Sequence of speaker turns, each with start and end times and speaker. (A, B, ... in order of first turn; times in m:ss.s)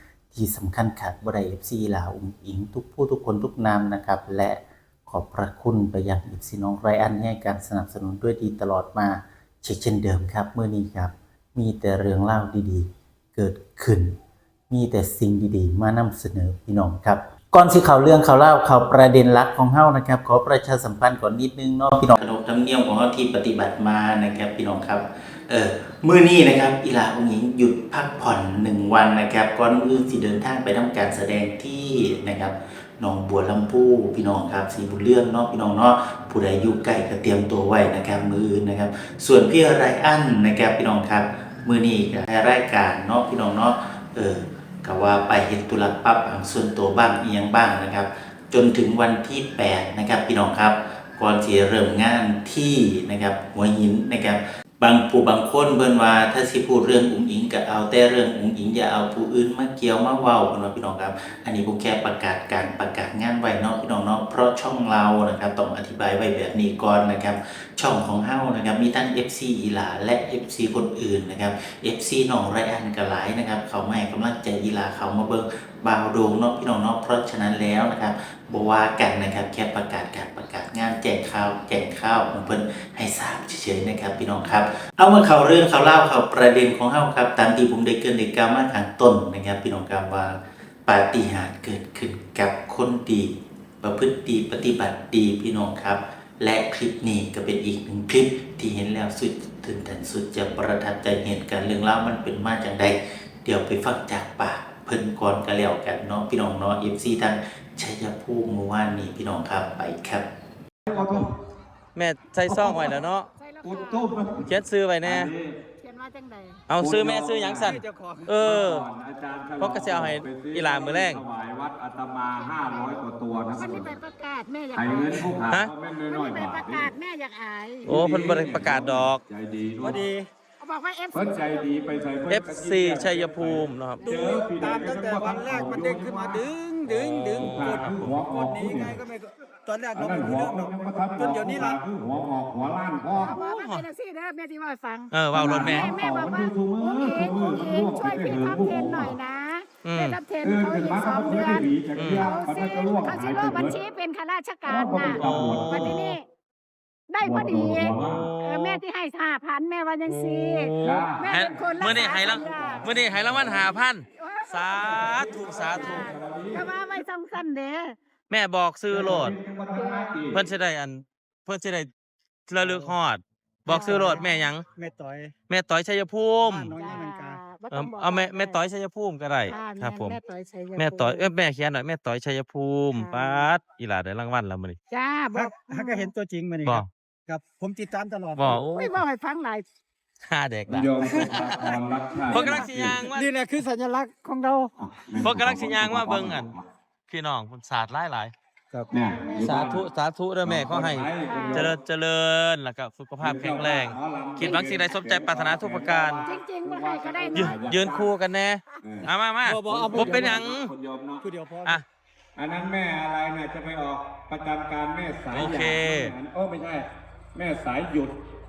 0:00.3-0:14.2 A
0:14.7-1:50.2 A
1:50.8-1:51.3 B
1:51.9-1:53.3 C
1:52.5-1:53.0 B
1:53.4-1:54.1 D
1:53.6-1:54.5 B
1:54.4-1:55.3 C
1:55.0-1:55.6 B
1:55.8-1:56.6 D
1:56.7-1:58.8 C
1:56.8-2:04.0 B
1:57.6-1:58.6 E
1:59.6-2:01.2 C
2:02.3-2:05.4 D
2:04.7-2:06.9 B
2:05.4-2:05.7 C
2:06.1-2:07.9 D
2:07.8-2:10.0 B
2:07.8-2:09.2 C
2:09.8-2:10.3 E
2:10.6-2:12.0 D
2:11.1-2:19.0 B
2:12.3-2:14.1 C
2:14.0-2:14.5 D
2:14.1-2:21.8 E
2:16.9-2:18.2 C
2:20.0-2:23.4 B
2:23.1-2:36.2 D
2:23.3-2:23.8 C
2:25.1-2:25.9 C
2:25.3-2:29.2 B
2:29.8-2:30.2 C
2:30.4-2:33.8 B
2:31.9-2:32.3 C
2:34.6-2:36.2 B
2:35.1-2:36.0 C
2:37.1-2:42.9 D
2:37.2-2:38.3 B
2:38.0-2:38.8 C
2:40.1-2:46.1 C
2:40.8-2:43.7 B
2:44.1-2:48.0 D
2:45.0-2:46.7 B
2:48.3-2:49.4 C
2:48.9-2:50.4 B
2:49.7-2:50.2 D
2:50.3-2:51.9 C
2:52.5-2:54.6 C
2:52.6-2:52.9 E
2:53.7-2:54.3 D
2:53.7-2:54.2 E
2:54.8-2:55.3 E
2:55.5-2:56.8 C
2:56.4-2:57.4 E
2:56.7-2:58.6 D
2:57.7-3:00.2 C
2:59.4-3:01.3 D
3:00.8-3:04.8 C
3:02.9-3:03.5 D
3:04.9-3:06.1 D
3:05.3-3:08.6 E
3:08.4-3:09.0 C
3:08.6-3:09.6 D
3:10.2-3:13.3 C
3:10.7-3:13.1 B
3:11.1-3:11.8 E
3:12.3-3:14.8 E
3:14.8-3:16.6 B
3:15.2-3:16.5 C
3:17.1-3:18.3 C
3:18.9-3:19.9 B
3:19.1-3:19.6 D
3:19.4-3:26.2 C
3:20.4-3:21.8 B
3:21.2-3:21.7 D
3:23.2-3:28.1 B
3:24.4-3:25.0 D
3:26.2-3:27.6 D
3:27.3-3:30.7 C
3:28.8-3:29.1 B
3:29.4-3:30.5 E
3:29.6-3:31.2 B
3:31.2-3:31.8 E
3:32.4-3:38.2 B
3:35.3-3:36.1 C